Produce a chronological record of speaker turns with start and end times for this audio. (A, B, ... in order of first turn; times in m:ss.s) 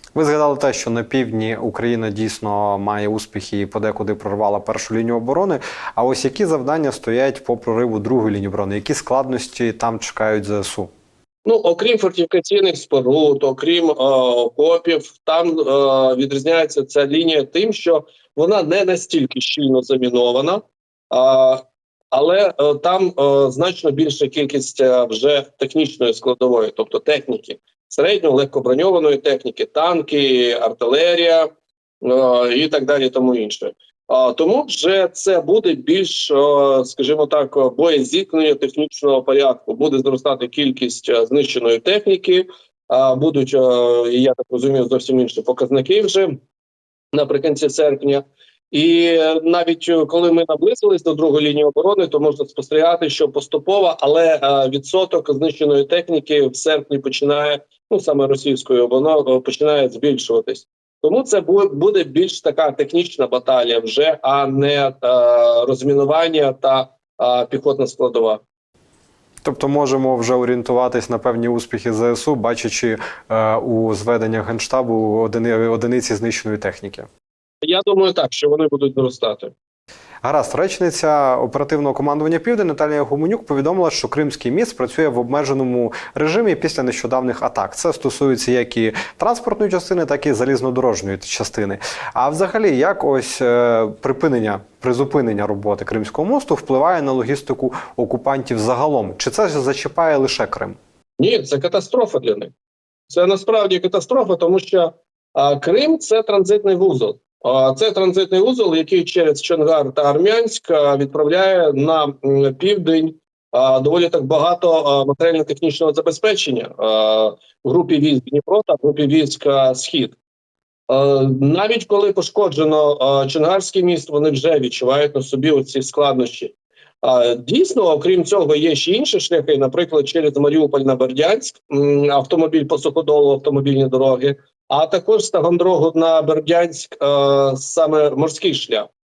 0:00.1-0:10.9 A
0:11.4-0:31.5 B
0:32.0-0:46.4 B
0:47.1-1:08.4 B
1:09.4-1:17.1 A
1:17.6-1:19.5 B
1:20.2-1:40.8 A
1:41.2-1:42.5 B
1:43.1-2:00.2 B
2:00.9-2:18.9 B